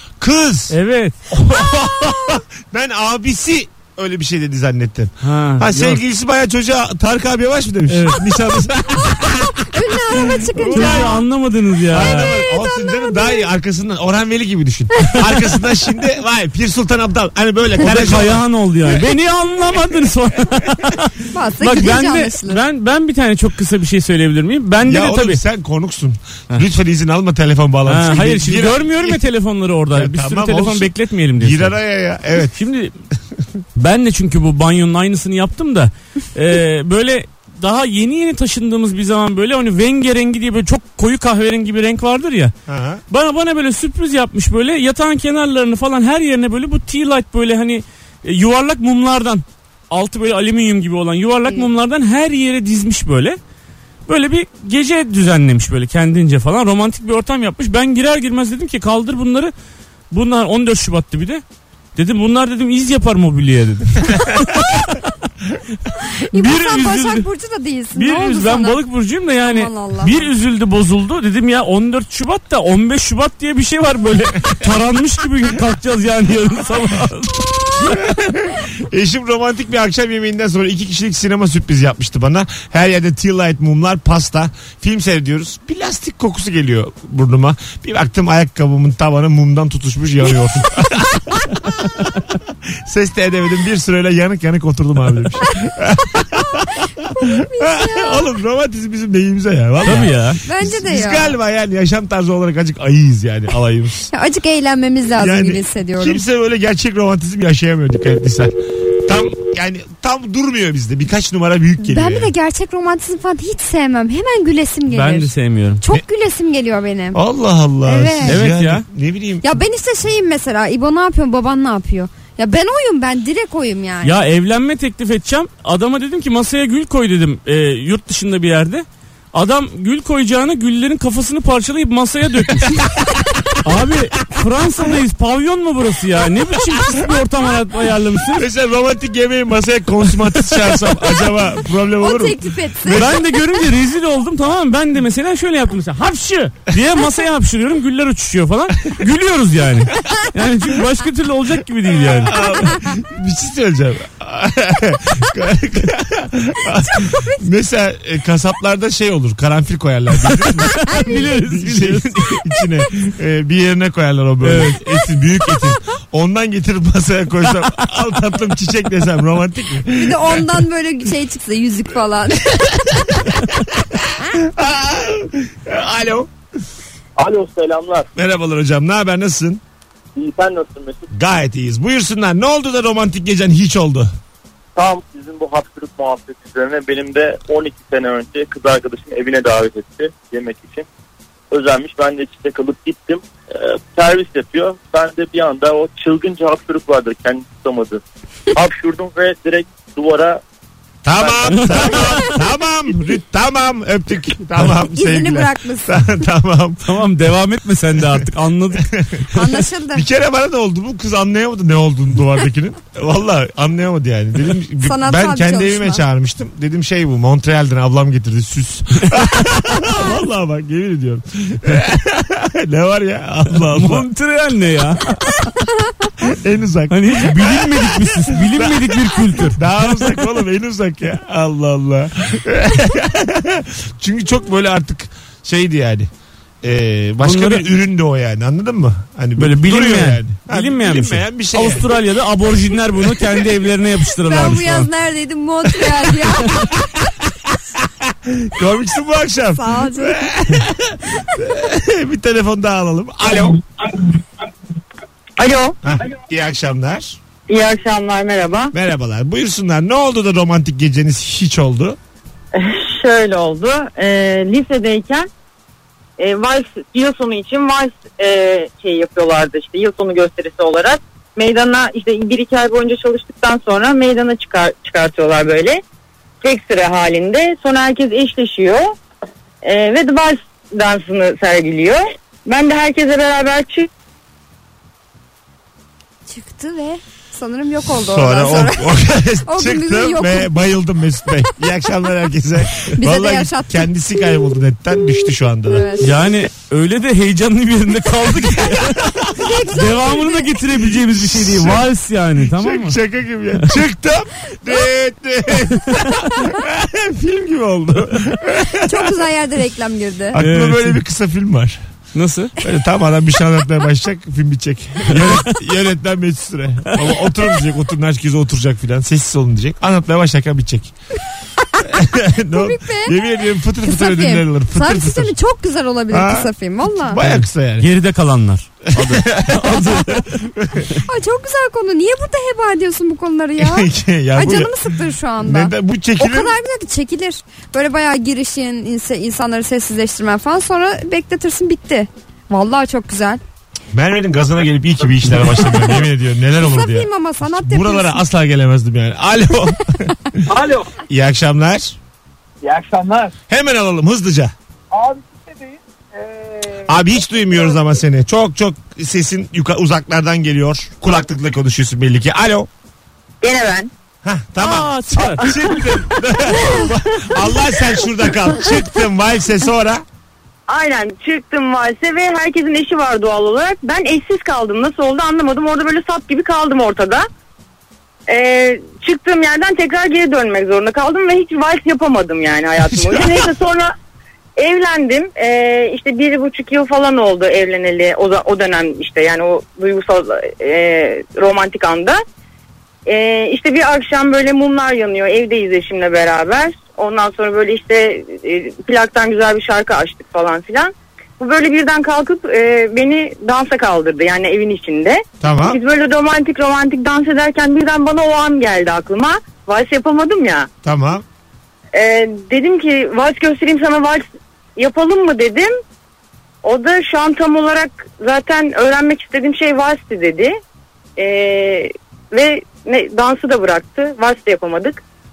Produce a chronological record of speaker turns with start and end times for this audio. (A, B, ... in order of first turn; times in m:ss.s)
0:00.2-0:00.7 A
0:00.7-0:01.2 B
0:01.3-0:11.2 A
0:05.2-0:06.0 B
0:07.9-0:08.2 B
0:09.5-0:11.2 C
0:10.7-0:12.3 B
0:11.9-0:19.0 A
0:12.1-0:13.5 C
0:17.8-0:25.4 B
0:21.3-0:22.6 C
0:24.8-0:29.2 A
0:27.9-0:31.8 B
0:29.9-0:32.5 A
0:32.5-0:32.9 B
0:33.8-0:42.5 B
0:42.7-0:43.0 A
0:43.1-0:53.4 B
0:54.1-0:59.5 B
1:00.1-1:01.4 B
1:02.0-1:04.9 B
1:06.2-1:08.8 C
1:06.3-1:07.3 B
1:07.9-1:18.0 B
1:09.4-1:10.3 C
1:17.8-1:44.1 A
1:37.2-1:38.3 C
1:39.8-1:40.4 B
1:40.4-1:41.3 C
1:44.1-1:46.2 C
1:45.2-1:52.3 A
1:51.8-1:57.2 C
1:54.9-1:55.8 B
1:57.1-1:59.5 A
1:57.8-1:58.4 C
1:58.2-1:58.8 B
1:59.4-2:04.1 C
2:04.0-2:12.8 B
2:12.6-2:13.2 A
2:13.6-2:18.5 B
2:18.3-2:23.2 A
2:22.0-2:23.2 C
2:22.9-2:32.4 B
2:32.2-2:50.6 A
2:32.3-2:32.7 C
2:37.0-2:37.4 C
2:40.2-2:42.4 B
2:44.4-2:44.8 B
2:49.9-2:53.2 C
2:52.6-2:56.3 A
2:57.2-2:58.1 D
2:58.2-2:59.6 A
3:00.2-3:01.1 D
3:01.1-3:04.1 A
3:04.7-3:10.8 D
3:11.5-3:18.0 D
3:18.5-3:20.4 D
3:21.0-3:26.9 A
3:21.1-3:22.3 D
3:21.5-3:22.2 B
3:24.8-3:26.2 C
3:26.8-3:28.9 B
3:28.8-3:29.3 A
3:29.3-3:30.0 C
3:29.9-3:44.1 A
3:34.8-3:36.0 C
3:43.7-3:45.3 B
3:46.2-3:56.1 A
3:46.9-3:50.1 B
3:56.6-4:01.9 A
3:57.2-3:57.7 B
3:59.4-4:04.9 B
4:04.2-4:06.8 C
4:05.9-4:06.6 A
4:08.0-4:13.6 A
4:09.5-4:10.3 C
4:15.4-4:15.8 E
4:15.8-4:17.2 A
4:17.5-4:18.7 E
4:18.7-4:22.0 A
4:22.5-4:25.3 E
4:26.2-4:35.8 E
4:36.4-4:38.9 E
4:39.6-4:43.9 E
4:46.3-4:48.9 C
4:48.0-4:55.9 A
4:49.4-4:50.5 C
4:52.8-4:54.2 C
4:55.7-4:56.1 C
4:56.0-4:59.1 B
4:59.0-4:59.5 A
4:59.3-5:00.5 C
4:59.7-5:03.0 B
5:01.0-5:01.8 A
5:02.5-5:09.2 A
5:08.8-5:10.4 C
5:10.3-5:11.8 A
5:10.4-5:11.0 B
5:12.1-5:12.5 B
5:12.6-5:20.9 A
5:15.1-5:15.5 B
5:21.8-5:25.3 A
5:22.5-5:23.2 C
5:23.8-5:27.2 C
5:26.1-5:26.5 A
5:27.1-5:27.9 A
5:27.2-5:30.2 B
5:28.9-5:30.9 A
5:31.0-5:43.4 C
5:33.6-5:36.5 A
5:43.9-5:50.4 A
5:46.6-5:48.2 C
5:50.5-5:50.8 D
5:51.0-5:52.0 A
5:52.6-5:53.3 F
5:53.5-5:54.5 A
5:54.9-5:56.7 F
5:56.8-6:02.7 A
6:03.4-6:03.9 E
6:04.2-6:10.0 A
6:04.6-6:05.5 B
6:10.7-6:17.2 E
6:18.3-6:23.9 E
6:24.6-6:32.2 E
6:33.0-6:50.7 E
6:45.4-6:45.8 A
6:50.8-6:51.2 A
6:51.9-6:54.2 E
6:54.8-6:55.7 E
6:56.6-7:00.5 E
7:01.2-7:05.0 E